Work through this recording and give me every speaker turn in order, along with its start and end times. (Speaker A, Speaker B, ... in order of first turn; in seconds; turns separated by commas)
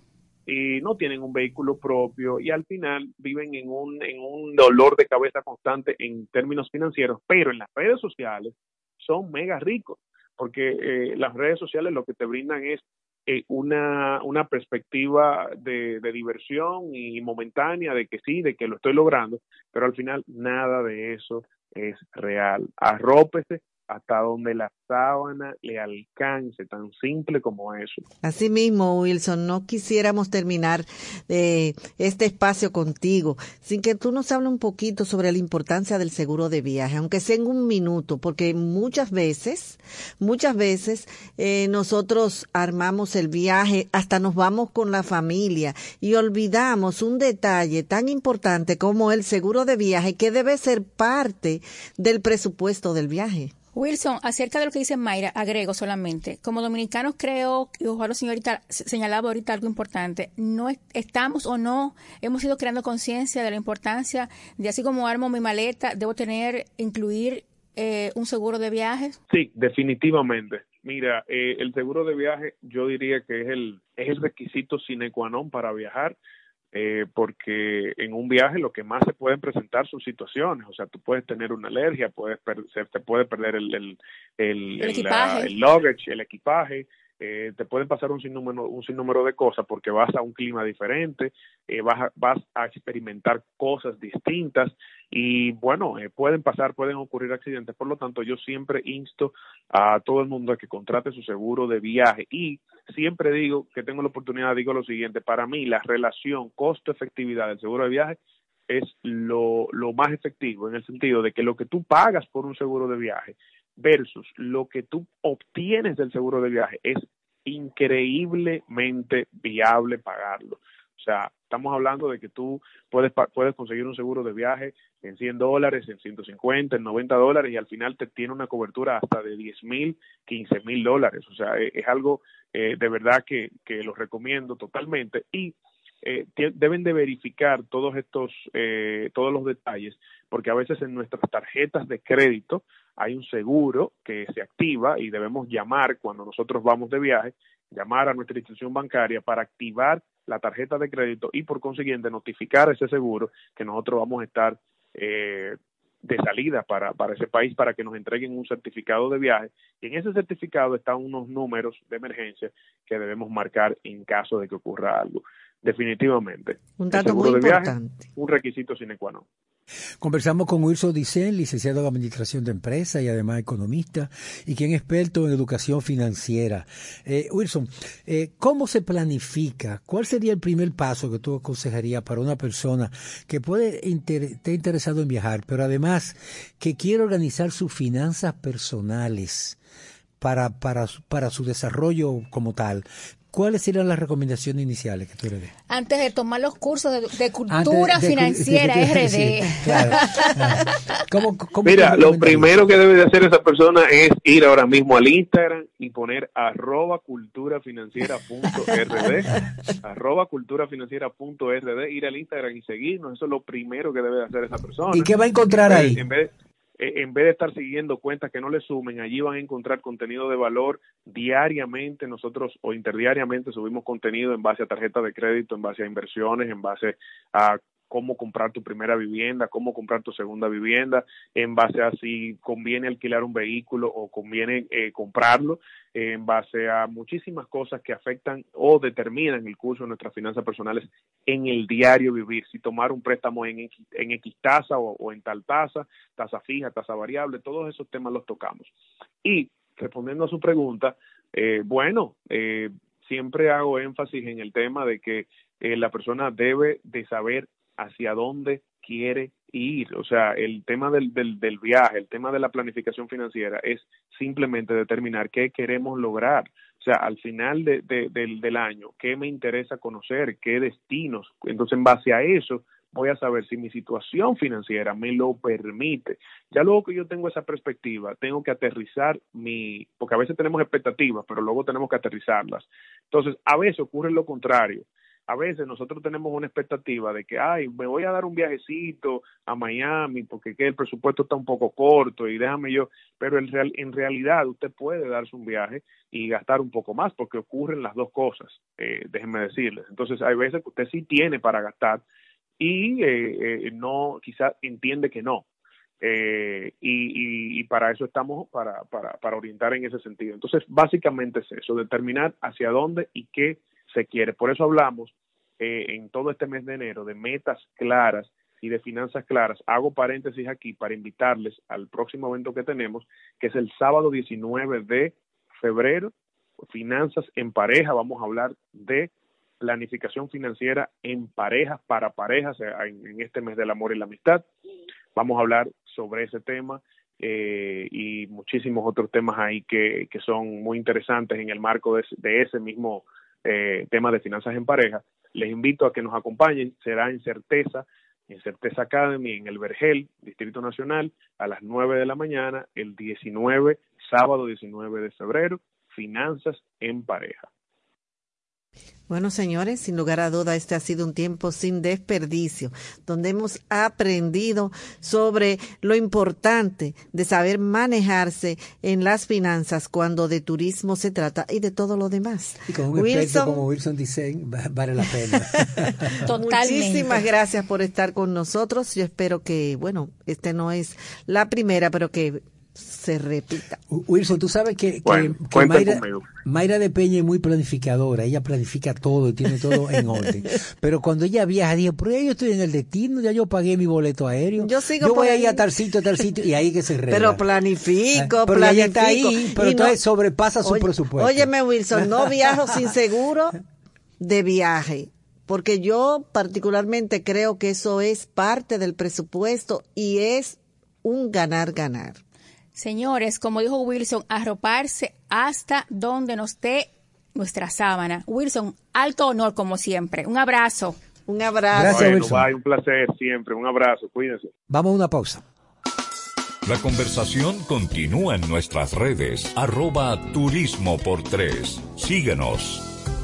Speaker A: 0.5-28.0, Speaker B: 28.2-53.5, Speaker C: 53.8-69.2, Speaker A: 69.3-76.2, Speaker A: 76.7-108.2, Speaker C: 84.8-85.5, Speaker A: 108.7-169.2, Speaker B: 166.8-168.1, Speaker D: 170.0-189.6, Speaker D: 190.2-195.5, Speaker C: 195.7-200.3, Speaker D: 197.5-202.7, Speaker A: 201.7-248.7, Speaker D: 214.9-216.0, Speaker A: 249.2-302.0, Speaker A: 302.6-305.4, Speaker A: 306.0-334.5, Speaker A: 335.1-357.5, Speaker B: 359.1-373.6, Speaker D: 372.7-376.2, Speaker B: 375.6-383.8, Speaker C: 376.2-377.2, Speaker D: 383.9-397.4, Speaker A: 385.1-386.2, Speaker B: 394.6-395.6, Speaker B: 397.1-400.0, Speaker D: 398.1-402.3, Speaker B: 400.6-403.6, Speaker B: 404.2-412.2, Speaker C: 412.8-421.0, Speaker B: 421.3-422.2, Speaker D: 421.7-422.5, Speaker A: 421.9-424.5, Speaker D: 424.7-425.4, Speaker E: 426.7-432.9